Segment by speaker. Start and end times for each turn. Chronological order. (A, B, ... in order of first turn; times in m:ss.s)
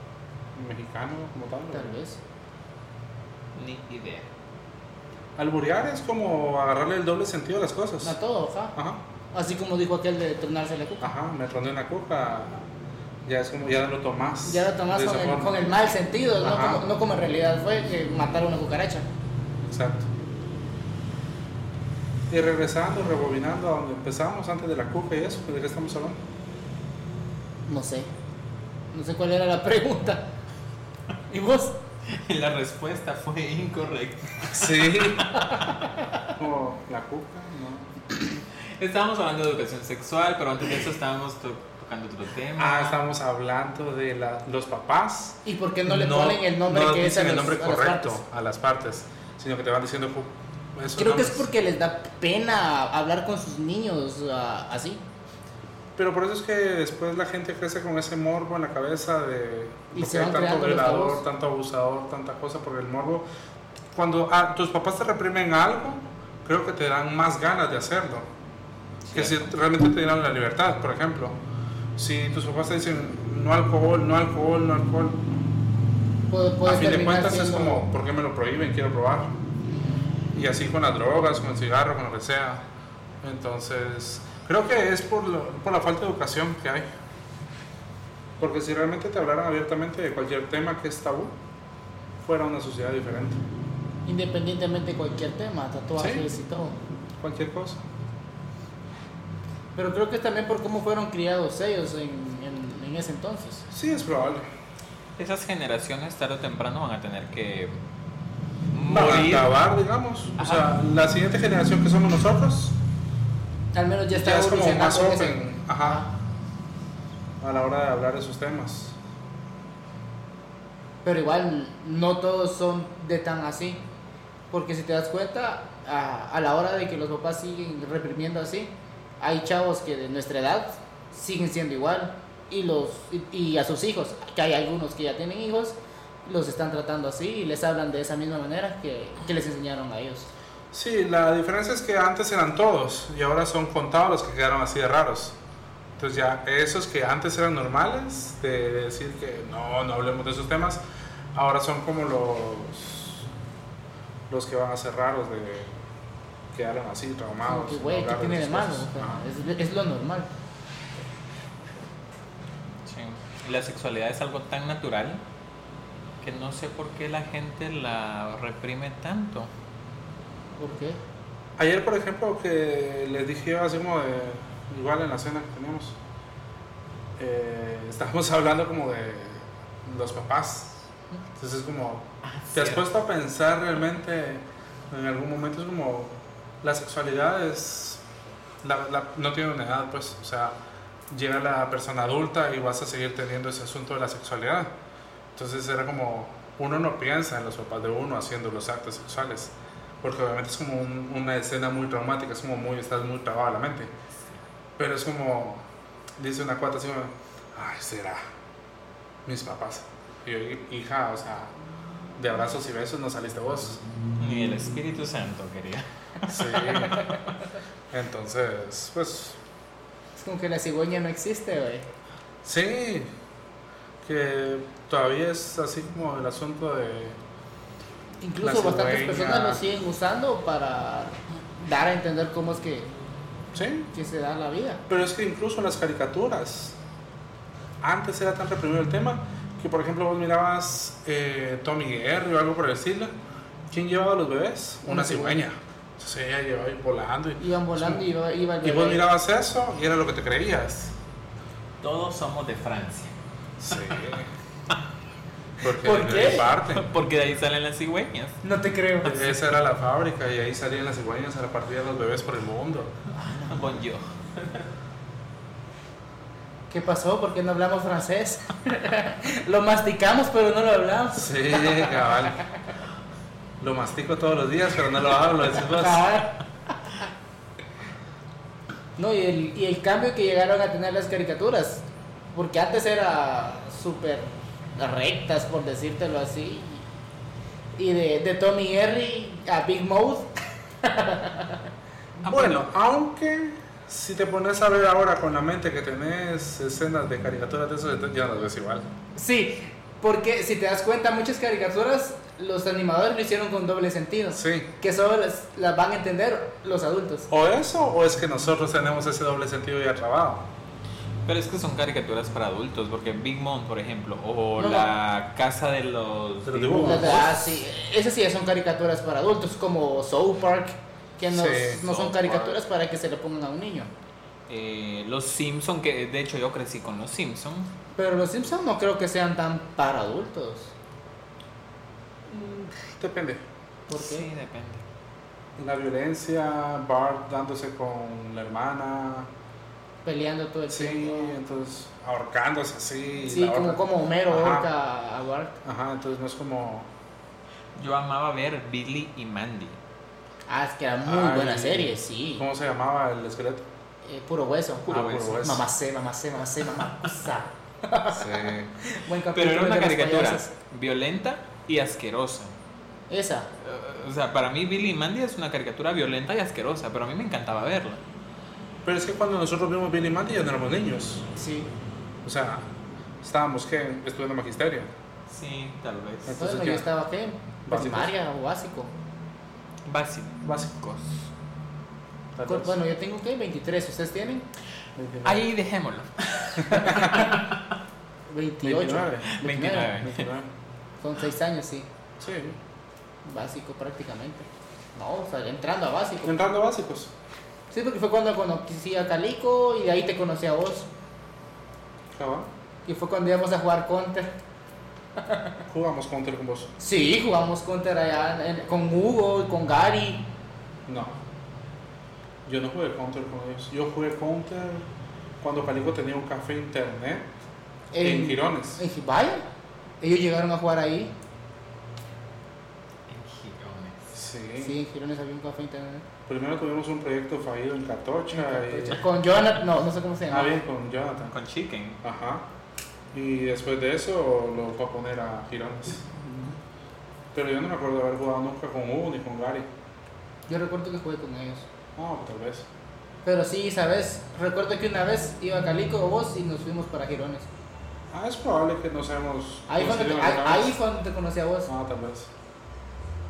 0:00.5-0:02.0 A
0:01.7-0:02.2 B
0:03.6-0:04.3 C
0:05.4-0:08.2 A
0:08.0-0:08.7 B
0:08.7-0:09.0 A
0:09.3-0:11.1 B
0:11.0-0:12.6 A
0:13.3-0:15.6 A
0:14.4-0:19.0 B
0:16.4-0:16.8 A
0:19.6-0:20.1 A
0:22.3-0:26.2 A
0:27.6-0:28.1 B
0:28.9-0:30.2 B
0:31.3-0:31.8 B
0:32.1-0:35.5 C
0:34.5-0:35.3 A
0:35.4-0:36.3 B
0:36.4-0:37.9 A
0:38.8-0:43.0 C
0:42.6-0:51.5 A
0:45.4-0:48.2 B
0:50.9-0:55.0 B
0:56.0-1:03.2 A
0:59.9-1:01.2 B
1:03.9-1:08.3 A
1:09.0-1:09.4 C
1:09.1-1:11.4 A
1:12.0-1:15.2 A
1:16.3-1:17.9 B
1:16.6-1:19.3 A
1:20.3-1:22.6 A
1:23.2-1:26.9 A
1:28.4-1:31.3 A
1:32.2-1:33.4 A
1:34.0-1:36.8 B
1:36.0-1:36.3 A
1:37.2-1:37.8 A
1:39.8-1:43.6 B
1:43.7-1:44.5 A
1:45.2-1:47.8 C
1:48.7-1:49.5 C
1:48.9-1:52.8 A
1:53.7-1:56.1 B
1:54.1-1:56.0 A
1:57.4-1:59.0 A
2:01.0-2:03.8 B
2:04.5-2:20.3 B
2:20.7-2:25.4 A
2:26.0-2:30.8 A
2:31.3-2:33.3 A
2:34.3-2:35.8 A
2:36.5-2:39.2 A
2:37.4-2:40.3 B
2:42.9-2:45.2 C
2:46.2-2:49.5 C
2:50.6-2:51.0 B
2:51.6-2:56.0 A
2:57.2-3:00.8 A
3:01.4-3:08.0 A
3:02.2-3:02.8 C
3:08.6-3:10.6 A
3:11.1-3:14.7 A
3:15.3-3:23.9 A
3:24.8-3:25.6 A
3:26.2-3:28.2 A
3:29.3-3:31.5 A
3:32.2-3:33.8 A
3:34.2-3:37.1 C
3:36.3-3:37.0 A
3:37.9-3:39.4 A
3:40.2-3:41.9 B
3:42.4-3:43.1 A
3:44.0-3:47.2 A
3:48.2-3:52.9 B
3:48.4-3:49.6 A
3:53.5-3:53.9 A
3:53.9-3:54.8 B
3:54.9-3:56.8 A
3:57.8-4:03.1 A
4:03.7-4:08.0 A
4:04.9-4:05.4 B
4:07.4-4:09.0 B
4:08.6-4:10.9 A
4:11.8-4:13.1 C
4:13.6-4:14.3 A
4:15.6-4:16.9 A
4:15.8-4:16.4 B
4:16.4-4:18.4 C
4:18.4-4:19.3 B
4:19.0-4:22.9 A
4:23.1-4:23.8 B
4:23.4-4:24.7 C
4:26.7-4:32.2 B
4:31.1-4:32.4 A
4:33.6-4:36.0 A
4:35.6-4:37.0 B
4:39.0-4:46.8 B
4:47.8-4:51.6 B
4:52.2-4:52.6 C
4:52.3-4:58.9 A
4:59.2-5:07.3 B
5:04.3-5:04.7 A
5:07.3-5:10.5 A
5:11.3-5:17.4 C
5:14.6-5:14.9 B
5:16.4-5:17.4 A
5:16.8-5:23.9 B
5:21.3-5:21.9 A
5:21.8-5:22.5 C
5:24.5-5:27.7 C
5:28.0-5:30.7 B
5:32.3-5:33.4 A
5:33.9-5:34.3 B
5:33.9-5:34.8 C
5:35.6-5:39.3 A
5:40.0-5:41.4 B
5:40.7-5:44.7 A
5:43.2-5:45.6 B
5:45.6-5:46.9 A
5:47.7-5:49.8 C
5:50.5-5:52.4 B
5:51.0-5:53.6 A
5:54.0-6:00.5 B
5:54.9-5:55.5 C
5:54.9-5:55.6 A
5:58.1-5:58.7 A
5:59.3-6:02.6 C
6:03.1-6:03.5 B
6:03.6-6:08.0 C
6:08.8-6:11.3 A
6:11.4-6:11.7 B
6:12.2-6:12.7 A
6:13.2-6:14.9 A
6:15.3-6:16.4 C
6:16.2-6:16.9 A
6:16.4-6:18.9 B
6:17.7-6:18.1 A
6:19.9-6:21.3 C
6:20.4-6:20.7 A
6:22.3-6:22.8 A
6:22.5-6:24.4 B
6:25.0-6:25.4 A
6:25.2-6:27.5 C
6:26.6-6:27.2 A
6:26.8-6:27.4 B
6:28.3-6:29.9 B
6:28.6-6:29.3 A
6:29.3-6:30.3 C
6:29.9-6:30.5 A
6:31.0-6:31.9 B
6:32.2-6:32.6 A
6:33.2-6:36.4 B
6:36.2-6:37.1 A
6:37.7-6:40.9 B
6:42.1-6:42.5 A
6:42.9-6:44.3 B
6:45.2-6:45.6 B
6:45.7-6:46.7 A
6:46.8-6:50.3 B
6:50.9-6:51.2 A
6:52.4-6:54.9 A
6:55.4-6:57.3 A
6:57.9-6:59.4 B
6:58.0-6:58.8 A
7:00.0-7:01.1 B
7:03.1-7:04.1 C
7:04.1-7:04.8 A
7:04.6-7:06.0 B
7:06.3-7:09.0 A
7:08.3-7:10.6 B
7:10.3-7:11.4 A
7:11.3-7:12.0 C
7:12.0-7:12.4 A
7:13.1-7:16.1 A
7:16.2-7:16.6 B
7:17.3-7:19.7 A
7:20.5-7:21.7 B
7:22.0-7:22.7 A
7:23.2-7:27.5 B
7:28.1-7:30.8 A
7:29.7-7:31.7 B
7:31.7-7:32.3 A